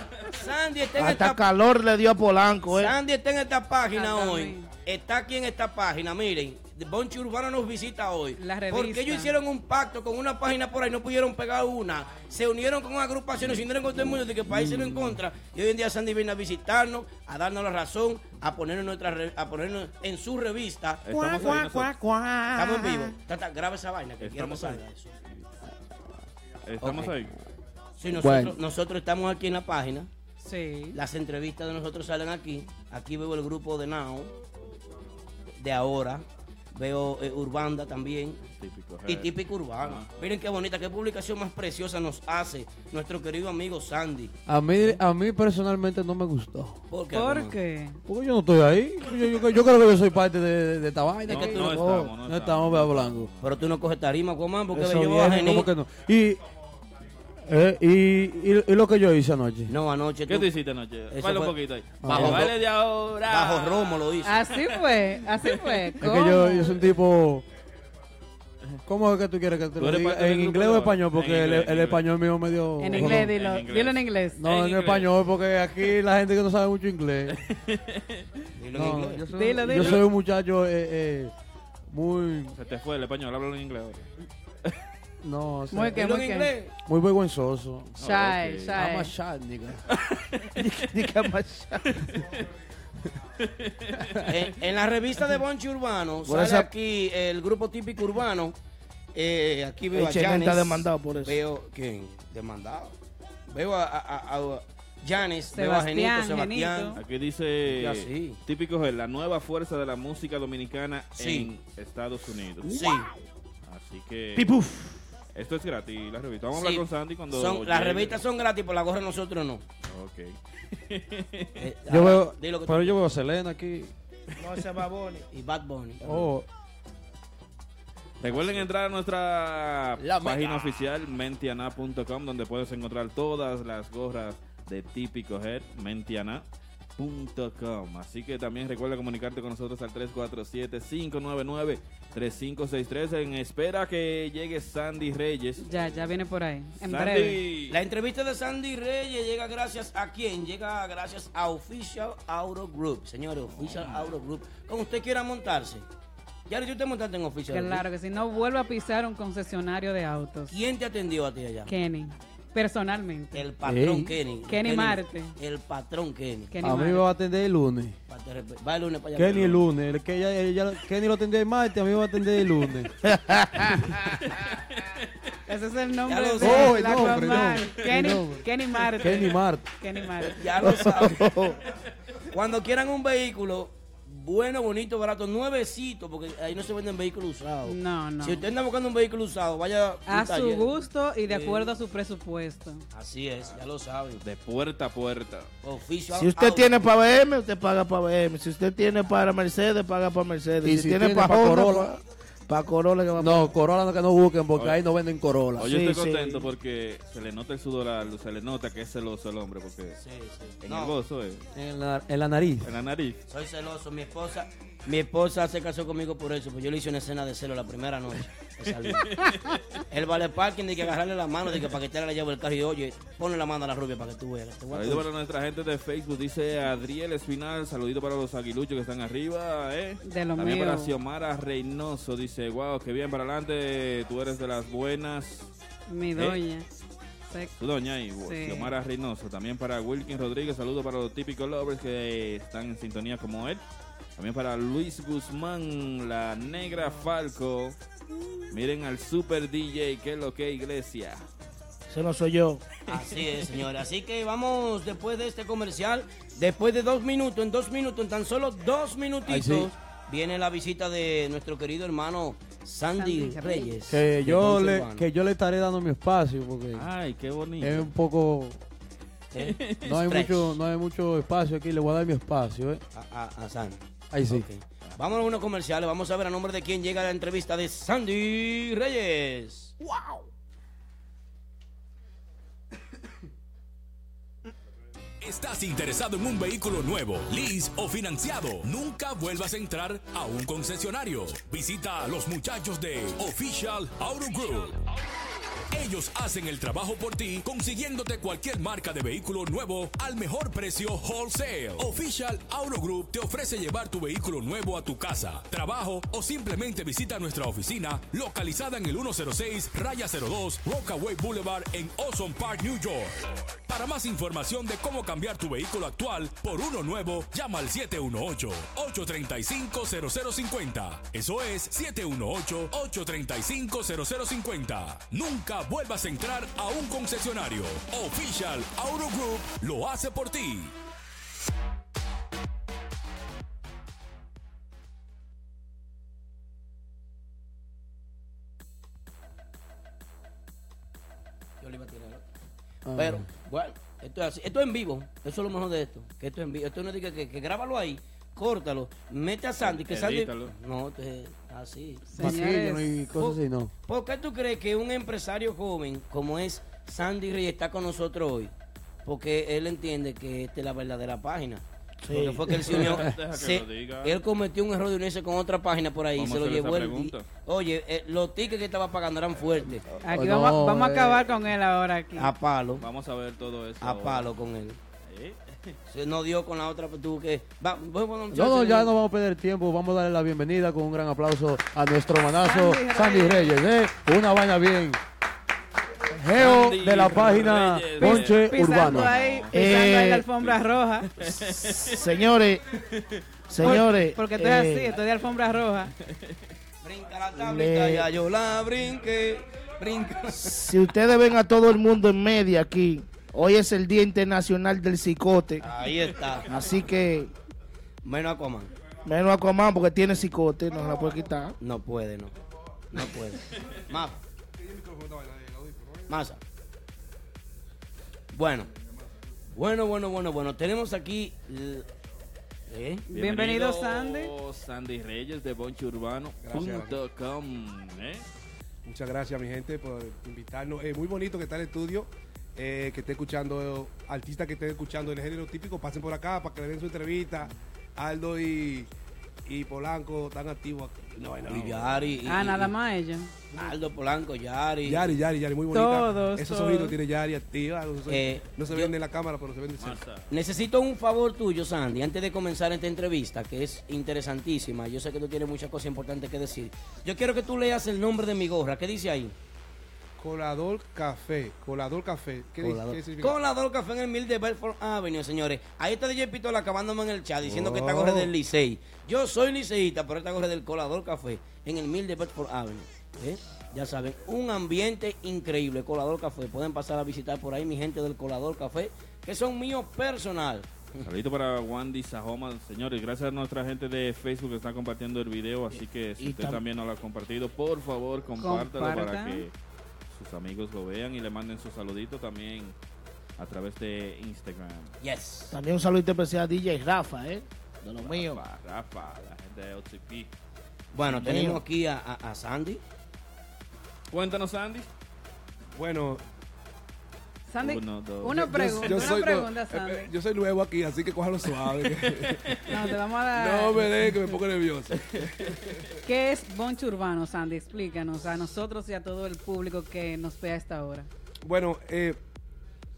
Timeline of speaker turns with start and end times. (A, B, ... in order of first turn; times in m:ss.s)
0:00.3-0:01.4 A
0:01.0-0:02.9 B
0:02.7-0:21.7 A
0:03.9-0:04.7 C
0:08.4-0:09.4 C
0:14.5-0:15.2 D
0:21.0-0:22.0 E
0:21.2-0:22.6 D
0:22.5-0:25.1 A
0:24.2-0:24.8 E
0:26.6-0:27.3 E
0:26.8-0:27.2 A
0:28.0-0:30.1 A
0:28.1-0:28.6 D
0:30.4-0:31.0 C
0:30.9-0:34.3 A
0:35.6-0:38.4 A
0:38.5-0:40.1 E
0:39.1-0:45.0 A
0:44.4-0:46.8 D
0:46.9-0:47.6 A
0:47.1-0:48.0 C
0:48.0-0:53.3 D
0:51.3-0:53.8 E
0:51.3-0:51.7 A
0:51.6-0:52.1 B
0:53.4-0:55.7 A
0:54.7-0:56.4 D
0:57.4-0:59.7 D
0:59.7-1:00.5 A
1:00.3-1:04.8 E
1:01.1-1:01.5 A
1:02.0-1:02.5 D
1:02.1-1:02.5 A
1:03.3-1:04.4 A
1:04.2-1:06.7 C
1:05.4-1:05.9 E
1:06.0-1:07.4 D
1:08.8-1:13.3 D
1:09.8-1:12.0 E
1:12.8-1:14.4 C
1:12.9-1:15.1 E
1:14.4-1:17.4 D
1:17.4-1:18.4 E
1:18.6-1:19.2 A
1:18.7-1:21.3 D
1:19.3-1:20.0 C
1:19.7-1:20.0 E
1:21.9-1:22.5 D
1:22.5-1:24.0 E
1:25.2-1:26.1 D
1:25.7-1:26.5 C
1:25.9-1:26.7 A
1:26.8-1:27.9 D
1:28.0-1:28.8 E
1:28.0-1:29.1 C
1:28.7-1:29.8 D
1:29.9-1:30.6 E
1:30.6-1:32.2 B
1:33.4-1:34.4 E
1:34.2-1:38.6 A
1:36.2-1:36.7 B
1:39.1-1:43.0 A
1:39.9-1:41.4 B
1:43.5-1:47.0 A
1:45.5-1:47.0 C
1:46.9-1:52.9 E
1:47.6-1:48.4 A
1:51.2-1:51.5 A
1:52.6-1:53.1 A
1:53.6-1:54.5 E
1:54.4-1:54.9 D
1:55.3-1:58.2 E
1:56.5-1:59.6 A
1:59.8-2:01.6 E
2:01.6-2:03.0 A
2:01.9-2:03.9 D
2:04.4-2:05.3 B
2:05.3-2:06.3 A
2:06.0-2:06.4 D
2:08.2-2:16.4 E
2:08.2-2:08.7 A
2:17.0-2:26.1 E
2:25.6-2:27.4 C
2:26.8-2:27.8 E
2:27.7-2:35.8 A
2:33.5-2:34.1 E
2:36.5-2:37.8 A
2:37.5-2:40.6 C
2:40.5-2:41.7 A
2:41.6-2:43.5 C
2:43.3-2:46.5 A
2:43.6-2:44.2 D
2:44.5-2:45.4 C
2:46.5-2:47.0 C
2:46.6-2:48.0 D
2:48.1-2:49.6 A
2:49.1-2:52.9 D
2:53.0-2:54.0 B
2:55.5-3:00.5 C
2:56.0-2:57.4 A
2:56.4-2:58.4 D
2:59.0-2:59.6 D
3:00.3-3:01.3 A
3:00.6-3:01.6 B
3:02.3-3:11.7 A
3:07.6-3:08.5 C
3:10.1-3:12.8 C
3:12.9-3:14.2 A
3:14.2-3:15.5 E
3:15.6-3:16.9 A
3:16.1-3:23.5 B
3:20.6-3:21.9 D
3:23.2-3:25.8 D
3:24.5-3:24.8 E
3:25.6-3:30.0 E
3:25.6-3:26.4 B
3:30.0-3:30.9 A
3:30.6-3:31.4 E
3:31.5-3:32.7 D
3:32.6-3:33.2 E
3:33.3-3:39.1 A
3:38.9-3:39.6 E
3:39.9-3:45.1 A
3:44.7-3:55.5 E
3:50.0-3:50.9 C
3:55.9-3:56.6 C
3:57.6-4:03.6 E
3:58.2-3:58.7 C
4:04.2-4:07.8 E
4:08.5-4:11.2 E
4:11.9-4:12.6 B
4:12.9-4:25.0 A
4:19.3-4:19.7 D
4:23.0-4:23.8 C
4:23.9-4:26.9 D
4:26.7-4:27.9 E
4:27.6-4:28.6 D
4:29.3-4:30.5 A
4:29.4-4:29.9 E
4:29.8-4:32.8 D
4:32.9-4:39.8 A
4:34.1-4:34.4 D
4:45.2-4:54.8 F
4:55.7-5:30.7 F
5:41.6-5:42.2 A
5:42.8-5:43.3 D
5:42.9-5:52.3 A
5:49.6-5:50.5 E
5:52.1-5:52.9 C
5:52.2-5:53.7 D
5:53.1-5:58.5 A
5:59.0-6:09.8 A
6:02.0-6:02.9 B
6:02.8-6:04.2 E
6:06.2-6:07.3 E
6:10.0-6:12.3 C
6:10.0-6:11.2 D
6:12.2-6:12.8 A
6:12.8-6:14.4 E
6:13.8-6:14.8 A
6:15.0-6:15.7 E
6:15.9-6:18.9 A
6:18.3-6:25.0 D
6:22.4-6:23.6 C
6:26.1-6:29.1 D
6:26.3-6:29.6 E
6:28.0-6:31.1 C
6:29.5-6:30.2 B
6:31.1-6:32.0 E
6:31.4-6:32.6 B
6:33.5-6:34.9 B
6:33.6-6:35.9 C
6:36.8-6:40.7 A
6:37.3-6:38.1 B
6:40.4-6:45.6 B
6:45.6-6:46.7 A
6:46.5-6:47.3 B
6:48.0-6:48.7 A
6:49.0-6:51.6 B
6:51.6-6:52.3 A
6:52.9-6:54.2 A
6:54.5-6:56.2 G
6:56.1-6:56.4 A
6:58.3-6:58.7 A
6:59.5-7:01.8 A
7:02.7-7:03.0 A
7:03.1-7:04.3 C
7:03.1-7:08.2 E
7:06.4-7:07.0 G
7:08.8-7:18.9 G
7:19.4-7:21.8 G
7:21.5-7:22.2 E
7:21.5-7:22.7 A
7:22.2-7:23.3 C
7:23.5-7:25.2 A
7:24.8-7:30.0 G
7:25.7-7:27.0 C
7:28.1-7:28.9 A
7:29.8-7:30.3 E
7:30.3-7:39.3 A
7:40.2-7:43.4 G
7:42.6-8:01.1 A
7:47.4-7:48.3 G
8:01.0-8:09.5 E
8:06.2-8:06.6 B
8:08.4-8:09.4 C
8:10.1-8:12.8 E
8:13.4-8:15.0 E
8:15.0-8:15.5 A
8:15.5-8:18.4 B
8:18.0-8:20.3 E
8:20.9-8:22.8 A
8:21.0-8:21.6 B
8:24.1-8:24.9 E
8:25.7-8:26.2 G
8:27.5-8:30.1 C
8:27.6-8:29.0 E
8:28.3-8:32.6 G
8:32.0-8:32.6 E
8:32.6-8:34.1 C
8:33.3-8:35.6 G
8:35.0-8:35.7 E
8:36.0-8:41.1 C
8:41.4-8:42.2 G